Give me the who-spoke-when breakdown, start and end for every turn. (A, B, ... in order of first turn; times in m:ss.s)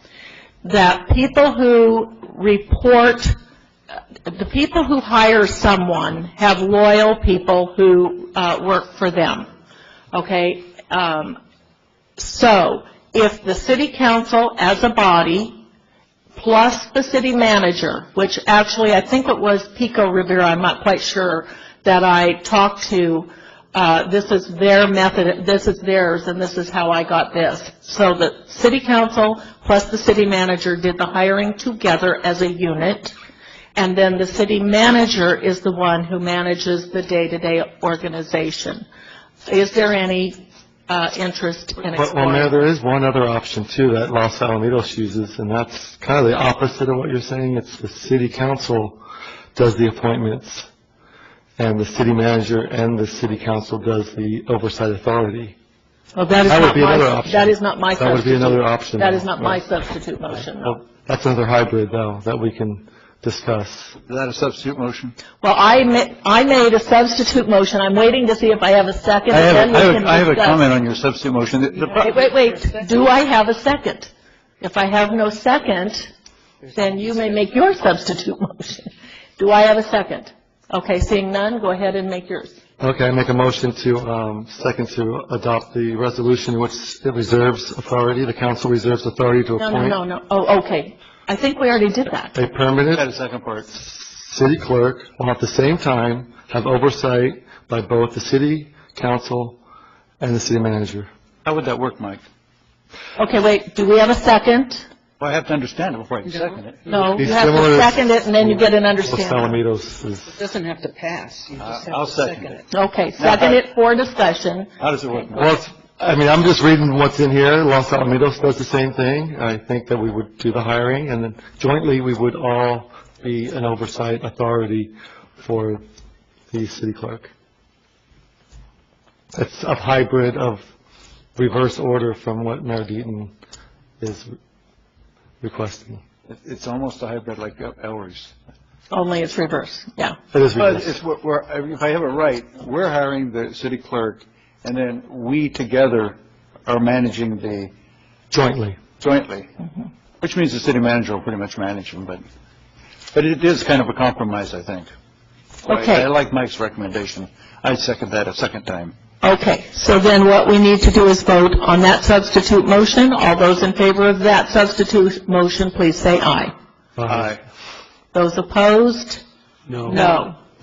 0:00.6-0:03.4 A
0:04.2-0:09.5 A
0:10.1-0:11.4 A
0:12.2-0:15.6 A
0:16.4-0:33.1 A
0:33.8-0:38.8 A
0:39.4-0:42.7 A
0:41.9-0:49.0 B
0:49.5-0:50.7 B
0:51.6-0:55.6 B
0:56.2-1:00.8 A
0:56.4-0:59.6 B
1:00.3-1:04.0 B
1:04.1-1:05.1 C
1:05.4-1:10.6 A
1:09.3-1:12.1 C
1:11.9-1:16.1 A
1:16.7-1:22.6 A
1:22.8-1:30.0 B
1:29.6-1:32.3 A
1:32.3-1:33.0 B
1:32.9-1:33.7 C
1:33.7-1:39.6 B
1:40.2-1:41.1 B
1:41.4-1:42.2 C
1:43.2-1:44.9 A
1:45.2-1:46.9 C
1:46.9-1:49.6 A
1:47.1-1:50.3 B
1:50.3-1:52.6 D
1:51.6-1:52.6 C
1:52.7-1:54.7 A
1:53.2-1:53.6 C
1:54.8-1:55.6 C
1:55.3-2:05.8 B
2:06.5-2:07.3 B
2:09.3-2:10.6 B
2:11.4-2:13.3 B
2:14.0-2:14.3 B
2:15.4-2:16.0 B
2:16.3-2:18.3 C
2:18.9-2:20.2 A
2:20.3-2:20.9 B
2:20.6-2:27.7 C
2:28.3-2:28.8 B
2:29.0-2:29.5 C
2:30.2-2:32.2 C
2:33.1-2:34.9 C
2:35.6-2:38.9 C
2:35.7-2:36.1 A
2:39.2-2:46.5 A
2:47.0-2:47.3 B
2:47.0-2:47.4 C
2:48.1-2:49.2 A
2:49.8-2:50.4 A